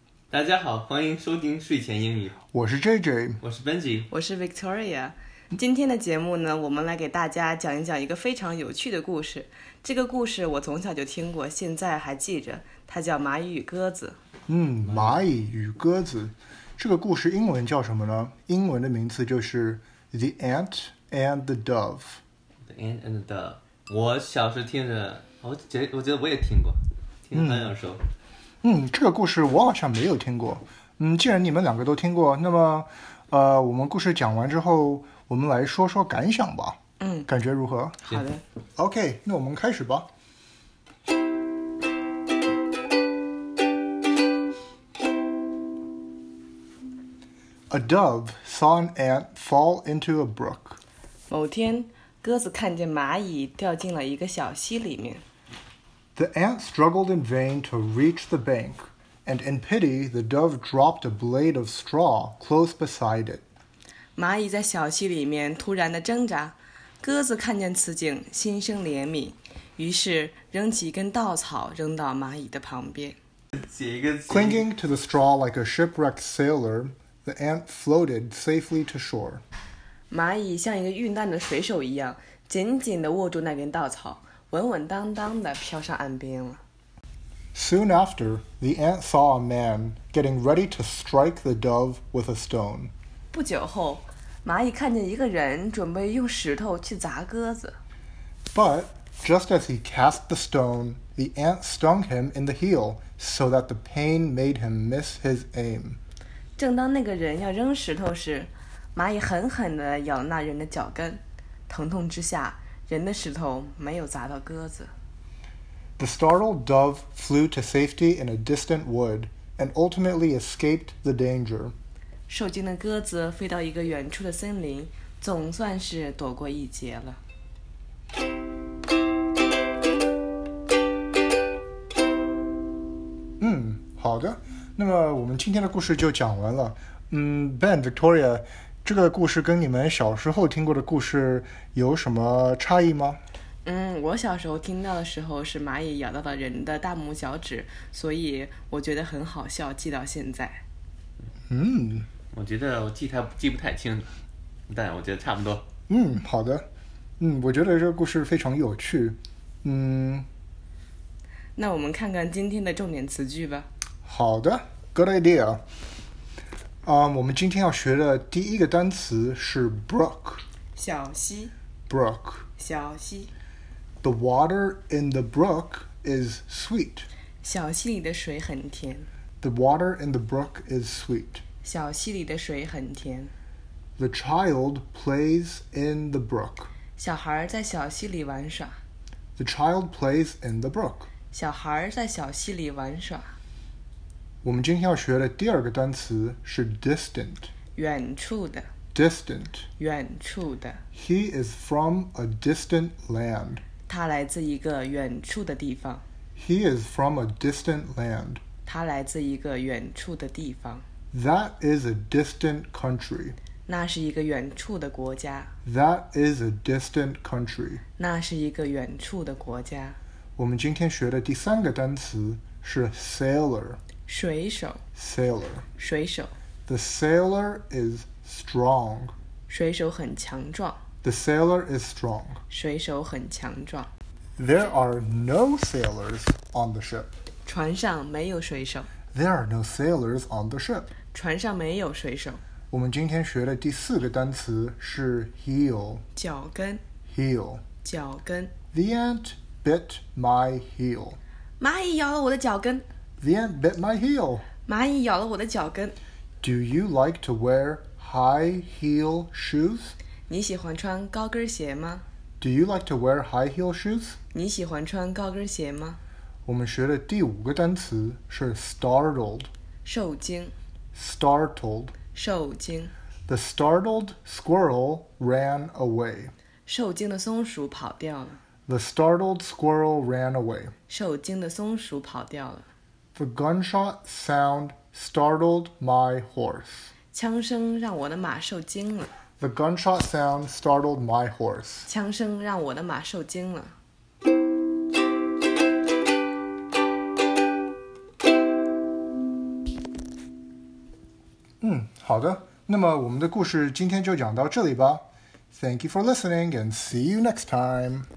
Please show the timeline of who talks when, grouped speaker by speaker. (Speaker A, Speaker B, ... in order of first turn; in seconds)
Speaker A: 0.3-2.4, 3.4-4.1, 22.7-28.0, 73.5-74.6, 152.3-154.1, 154.7-155.6
Speaker B: 2.5-3.4, 14.5-22.2, 27.3-27.7, 28.6-38.0, 38.8-40.1, 47.7-50.8, 56.1-63.4, 74.3-79.4, 87.5-92.9, 98.5-106.0, 116.0-121.8, 133.4-143.2, 151.5-152.1, 155.9-156.7, 157.2-160.3, 164.0-165.6, 166.8-170.4, 171.9-172.5, 174.0-177.1, 179.4-181.4, 184.0-186.7, 189.4-191.1, 194.4-197.5, 198.9-199.7, 200.9-203.6, 206.4-208.4, 211.1-213.4, 215.7-217.8, 220.4-223.8, 225.0-225.7, 226.7-229.1, 231.0-232.4, 234.4-237.1, 239.1-240.9, 242.7-246.0, 247.1-247.6, 248.7-251.2, 253.2-254.4, 256.4-259.9, 262.4-264.2, 266.4-269.5, 270.9-271.9, 273.3-276.3, 278.7-280.7, 283.2-286.9, 289.4-291.9, 301.6-308.1
Speaker C: 4.1-14.2, 37.0-37.3, 38.0-38.4, 51.3-55.2, 64.2-73.2, 80.1-86.6, 93.3-97.8, 106.6-114.9, 122.3-127.2, 143.7-150.6, 161.6-163.7, 170.8-171.5, 172.6-173.3, 177.4-179.1, 181.6-183.3, 187.0-188.8, 191.3-193.3, 197.8-198.7, 199.8-200.8, 203.9-206.0, 208.7-210.8, 213.7-215.5, 218.0-220.0, 224.1-224.8, 225.8-226.3, 229.5-230.8, 232.5-233.9, 237.4-238.9, 241.1-242.4, 246.2-246.8, 247.8-248.5, 251.6-252.8, 254.6-256.0, 260.3-262.0, 264.3-266.0, 269.9-270.5, 272.1-272.9, 276.7-278.4, 280.9-282.7, 287.1-289.1, 291.9-293.7